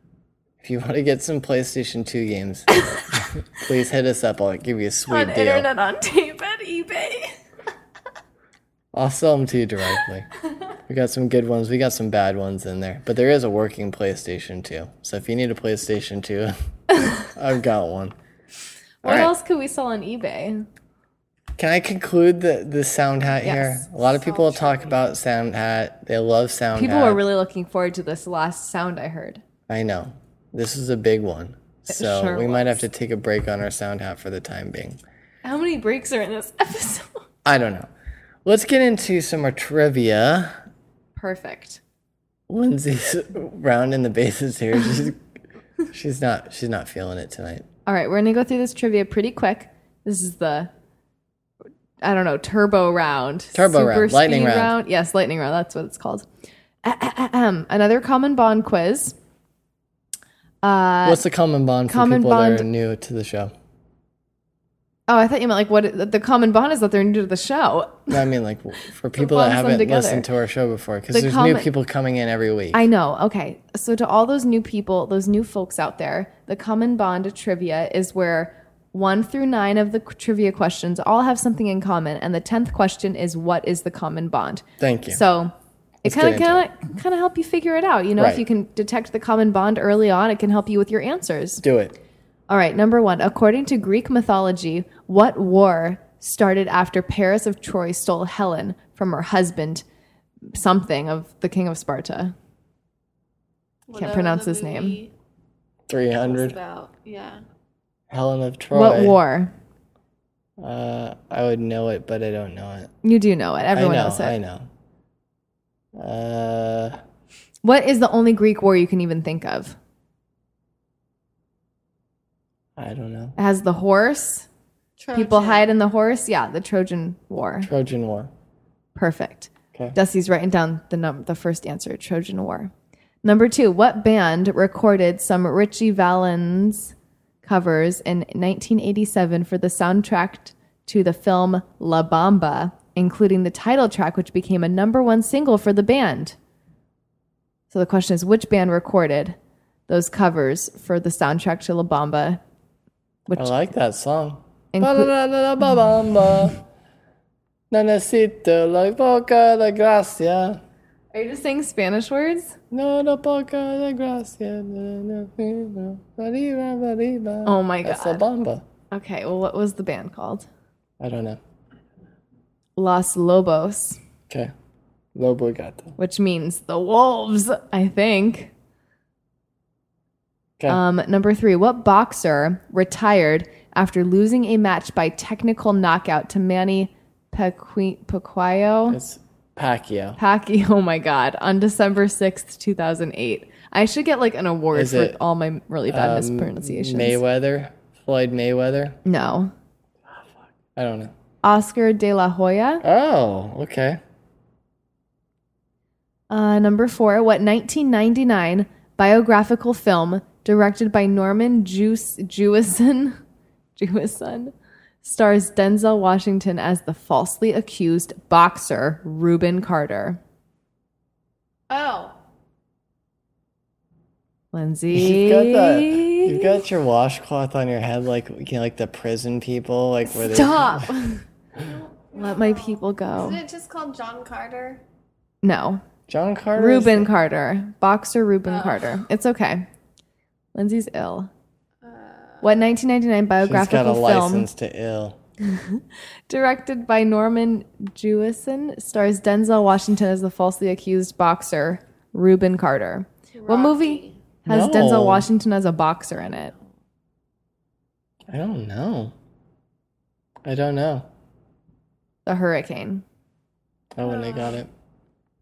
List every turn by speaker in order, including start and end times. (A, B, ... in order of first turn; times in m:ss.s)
0:00.6-0:05.7 A
0:02.7-0:03.0 B
0:05.1-0:07.3 B
0:08.9-0:10.3 A
0:10.9-0:16.5 A
0:17.2-0:18.1 A
0:19.0-0:20.7 B
0:19.0-0:19.3 A
0:21.6-0:27.2 A
0:23.4-0:23.9 B
0:24.2-0:24.9 C
0:26.7-0:29.4 B
0:29.7-0:35.0 A
0:31.9-0:32.8 B
0:35.4-0:37.2 B
0:37.4-0:37.9 A
0:38.4-0:40.6 A
0:41.2-0:41.8 B
0:42.5-0:45.2 A
0:45.9-0:47.6 A
0:47.8-0:50.7 B
0:52.0-0:56.3 B
0:53.5-0:54.7 A
0:56.8-0:59.1 B
1:00.6-1:01.2 B
1:01.0-1:03.5 A
1:01.9-1:02.6 B
1:05.1-1:08.2 B
1:08.1-1:12.8 A
1:09.2-1:10.2 B
1:11.1-1:11.7 B
1:12.7-1:25.5 B
1:24.8-1:25.2 A
1:26.0-1:26.6 A
1:26.0-1:31.6 B
1:28.2-1:28.4 A
1:31.6-1:32.0 A
1:32.5-1:39.8 B
1:40.5-1:42.3 B
1:43.9-1:45.1 C
1:43.9-1:45.0 B
1:45.9-1:46.6 A
1:46.2-1:47.4 C
1:48.1-1:49.2 A
1:48.7-1:49.5 B
1:50.6-1:52.9 A
1:53.0-1:54.3 B
1:53.7-1:54.7 A
1:56.0-1:57.0 A
1:57.6-1:59.8 B
2:02.8-2:03.4 A
2:03.4-2:04.5 B
2:05.0-2:05.7 C
2:05.1-2:07.7 B
2:07.6-2:08.3 A
2:08.9-2:12.7 B
2:13.2-2:26.4 B
2:27.7-2:29.4 B
2:29.9-2:32.4 B
2:33.3-2:33.5 B
2:33.3-2:36.6 A
2:34.7-2:35.1 B
2:37.7-2:40.6 A
2:41.1-2:42.6 B
2:42.7-2:48.6 A
2:47.4-2:48.2 B
2:48.9-2:50.5 B
2:51.0-2:51.4 A
2:52.8-2:54.0 B
2:55.1-2:55.9 A
2:56.0-2:58.5 B
3:00.7-3:09.0 B
3:08.9-3:10.2 A
3:10.2-3:17.2 B
3:14.7-3:15.2 A
3:15.9-3:19.0 A
3:19.0-3:19.5 B
3:20.1-3:21.1 A
3:21.4-3:22.8 B
3:22.8-3:24.0 A
3:26.3-3:33.2 B
3:33.8-3:40.2 B
3:41.7-3:42.1 C
3:44.5-3:46.6 B
3:44.9-3:50.9 A
3:50.1-3:51.2 B
3:51.6-3:54.8 C
3:52.1-3:53.4 B
3:55.4-3:55.8 B
3:56.1-3:57.1 A
3:56.5-3:59.7 B
3:58.5-3:59.0 C
4:00.5-4:01.3 B
4:01.8-4:02.6 C
4:02.4-4:04.5 B
4:03.4-4:05.2 A
4:05.4-4:16.5 B
4:13.4-4:14.2 C
4:14.5-4:15.3 A
4:18.3-4:19.1 A
4:20.4-4:21.1 A
4:22.2-4:23.0 B
4:23.9-4:24.7 A
4:24.0-4:24.6 C